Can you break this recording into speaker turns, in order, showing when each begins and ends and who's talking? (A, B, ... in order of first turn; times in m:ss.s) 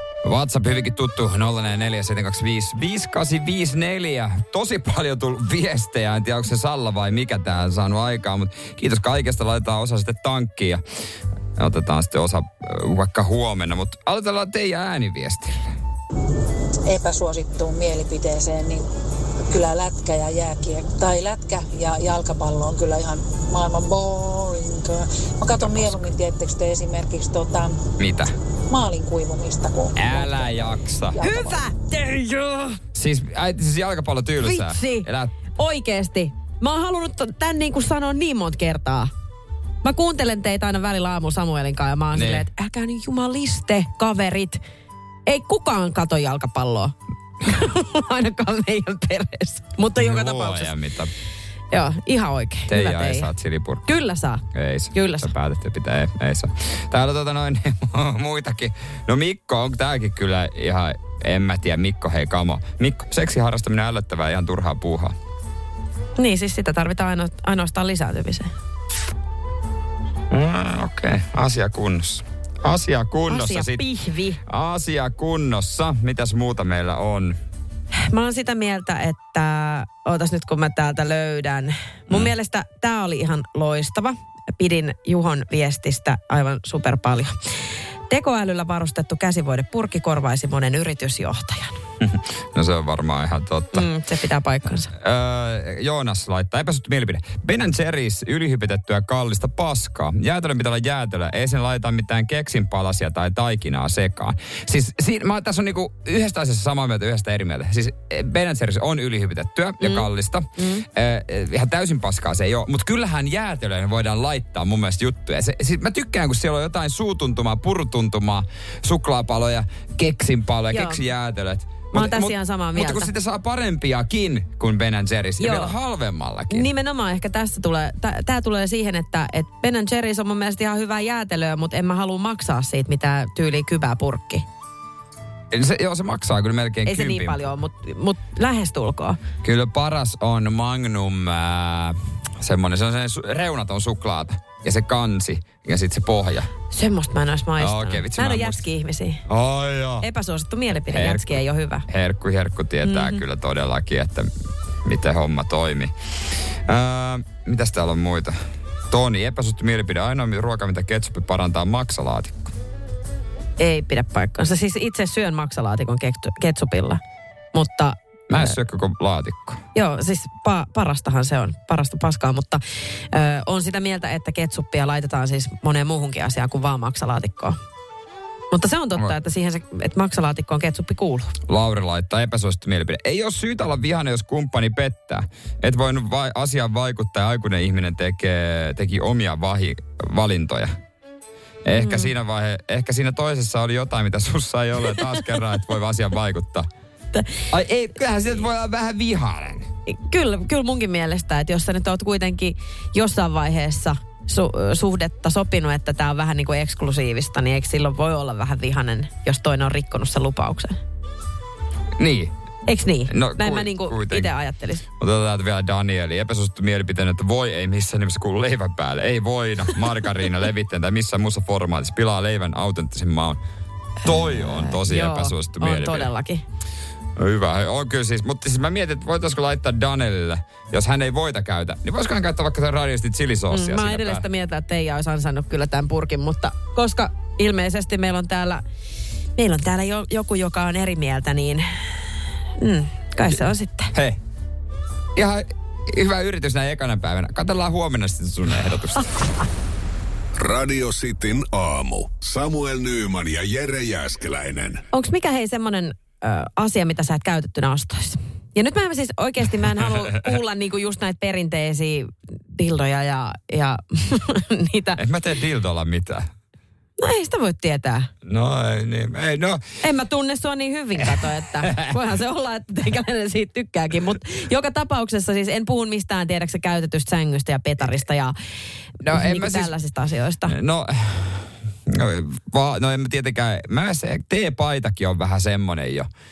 0:00.2-0:10.8 A
0:11.6-0:15.6 A
0:16.9-0:18.9 B
0:19.4-0:27.8 B
0:25.7-0:26.0 A
0:28.0-0:28.3 A
0:28.7-0:31.6 B
0:30.0-0:31.2 A
0:31.2-0:32.8 C
0:32.9-0:35.3 A
0:34.4-0:39.1 C
0:39.8-0:44.6 C
0:42.1-0:42.5 A
0:45.3-0:50.7 C
0:50.0-0:51.1 A
0:51.7-0:53.3 C
0:52.7-0:53.9 A
0:53.9-0:55.3 C
0:54.5-1:05.2 A
1:06.2-1:08.5 C
1:10.3-1:13.8 A
1:13.3-1:14.4 C
1:14.5-1:17.4 A
1:17.9-1:27.4 C
1:28.1-1:31.8 C
1:32.0-1:33.9 A
1:33.7-1:34.9 C
1:34.9-2:06.7 A
1:49.8-1:50.8 C
2:00.7-2:01.0 C
2:01.9-2:03.1 C
2:05.4-2:05.8 C
2:06.5-2:14.4 C
2:15.5-2:17.5 A
2:16.9-2:19.2 C
2:19.4-2:26.5 A
2:26.7-2:29.2 C
2:27.6-2:28.6 A
2:29.3-2:30.1 A
2:30.0-2:31.9 C
2:30.8-2:34.3 A
2:32.8-2:33.2 C
2:34.8-2:38.4 A
2:38.9-2:42.5 A
2:43.6-2:47.0 C
2:47.5-2:48.5 C
2:48.3-2:49.6 A
2:49.8-2:57.6 C
2:58.5-3:01.3 C
3:01.5-3:10.8 A
3:11.6-3:16.7 A
3:11.8-3:12.1 C
3:17.1-3:17.5 C
3:17.5-3:19.7 A
3:19.9-3:30.8 C
3:32.0-3:32.3 A
3:32.7-3:34.8 C
3:33.1-3:34.3 A
3:35.0-3:43.4 A
3:44.0-3:46.1 A
3:44.0-3:46.4 C
3:47.2-3:54.2 A
3:53.5-3:58.6 C
3:59.4-4:01.8 C
4:02.6-4:03.9 C
4:03.9-4:04.2 A
4:05.2-4:09.2 A
4:10.4-4:14.8 D
4:14.9-4:25.0 C
4:25.0-4:26.3 A
4:27.0-4:28.1 C
4:28.2-4:29.6 A
4:29.8-4:38.4 C
4:31.2-4:31.9 A
4:39.0-4:39.7 A
4:39.1-4:40.6 C
4:40.5-4:46.1 A